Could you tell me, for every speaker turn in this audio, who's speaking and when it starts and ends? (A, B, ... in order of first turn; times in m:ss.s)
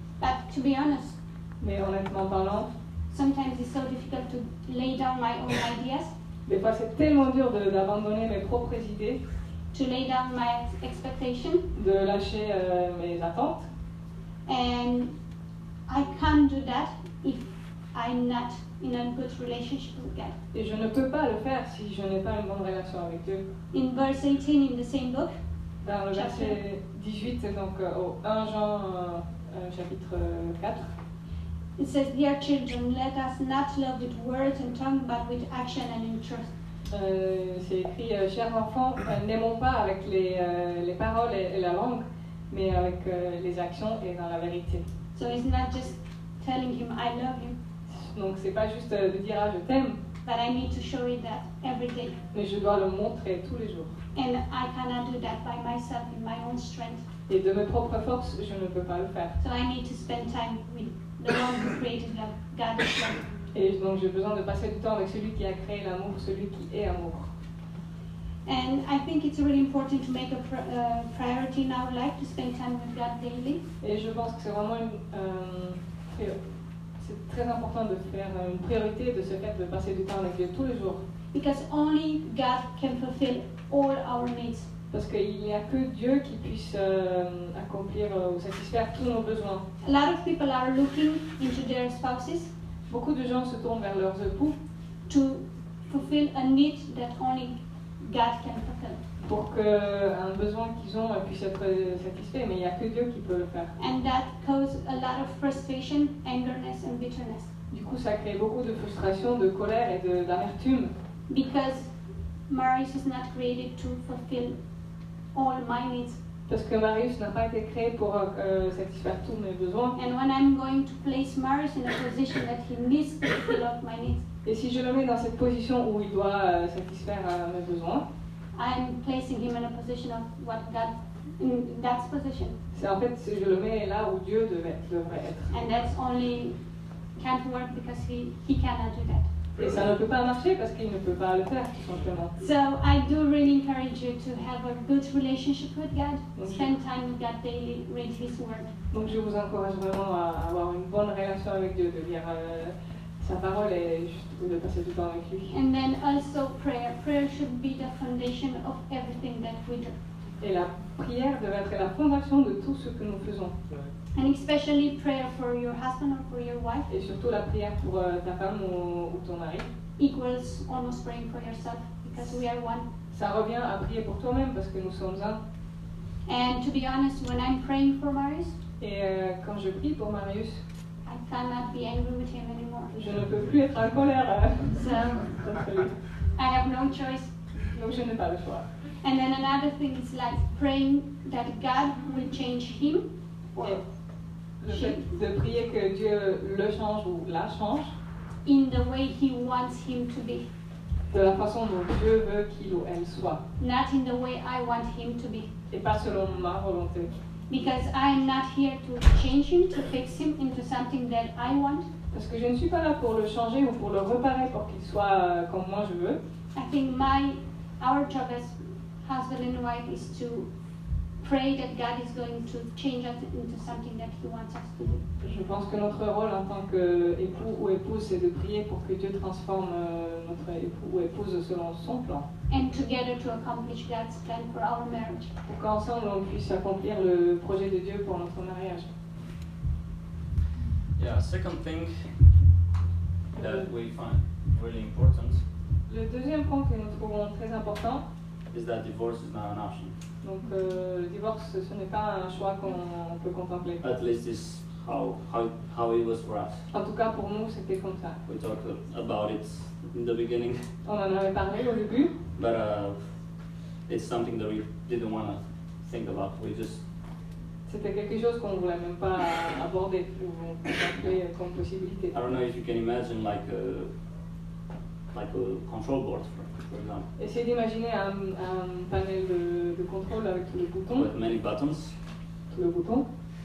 0:00.2-0:01.2 A
0:01.6-0:02.7 B
0:03.1-0:06.1 A
0:06.5-0:09.2 B
0:09.7-0:11.7 A
0:11.8-0:13.7 B
0:14.5-0:15.2 A
0:15.9-0:20.4 A
0:20.5-0:23.4 B
0:23.7-0:25.3 A
0:25.8-0:30.9 B
0:26.1-0:26.6 A
0:31.8-0:36.5 A
0:36.9-0:44.9 B
0:45.2-0:47.6 A
0:47.9-0:50.0 B
0:50.2-0:52.2 A
0:52.3-0:54.0 B
0:54.2-0:57.0 A
0:57.3-0:59.4 B
0:59.4-1:03.3 A
1:03.5-1:07.3 B
1:08.4-1:13.7 A
1:13.8-1:16.4 B
1:17.0-1:21.0 B
1:21.3-1:24.7 A
1:24.9-1:29.6 B
1:29.8-1:32.5 A
1:32.9-1:34.6 B
1:35.1-1:39.0 A
1:39.2-1:43.8 B
1:43.8-1:47.5 A
1:47.7-1:50.9 B
1:51.3-1:51.9 A
1:52.5-1:54.6 A
1:55.3-1:56.2 A
1:56.5-2:00.0 B
2:00.0-2:04.2 A
2:04.4-2:08.0 B
2:08.5-2:12.6 A
2:12.7-2:15.5 B
2:15.5-2:16.6 A
2:17.2-2:19.3 A
2:19.6-2:22.4 B
2:22.4-2:28.7 A
2:26.4-2:26.7 B
2:28.9-2:35.6 B
2:35.5-2:40.0 A
2:40.4-2:43.6 B
2:44.1-2:46.9 A
2:46.9-2:49.7 B
2:50.0-2:52.9 A
2:53.1-2:55.4 B
2:56.3-2:58.6 A
2:58.8-3:00.6 B
3:01.1-3:02.9 A
3:02.9-3:04.8 B
3:04.7-3:05.4 A
3:05.4-3:06.0 B
3:06.4-3:07.3 A
3:07.6-3:08.7 B
3:09.0-3:13.9 A
3:14.6-3:17.9 B
3:14.7-3:15.1 A
3:18.4-3:20.5 A
3:21.1-3:23.4 B
3:23.6-3:25.5 A
3:25.7-3:27.2 B
3:27.5-3:31.9 A
3:32.1-3:36.2 B
3:36.5-3:40.5 A
3:41.2-3:45.0 A
3:45.2-3:52.3 B
3:52.5-3:55.3 A
3:55.5-3:58.9 B
4:01.0-4:02.1 C
4:03.4-4:03.7 B
4:03.4-4:05.4 C
4:05.9-4:08.0 B
4:08.5-4:09.9 C
4:10.2-4:13.8 B
4:13.8-4:16.6 C
4:16.7-4:18.2 B
4:18.3-4:20.6 C
4:20.8-4:22.1 B
4:22.4-4:23.0 C
4:23.9-4:26.8 C
4:27.7-4:32.2 B
4:32.1-4:33.9 C
4:35.1-4:37.1 C
4:37.2-4:41.1 B
4:41.0-4:42.0 C
4:42.5-4:43.1 B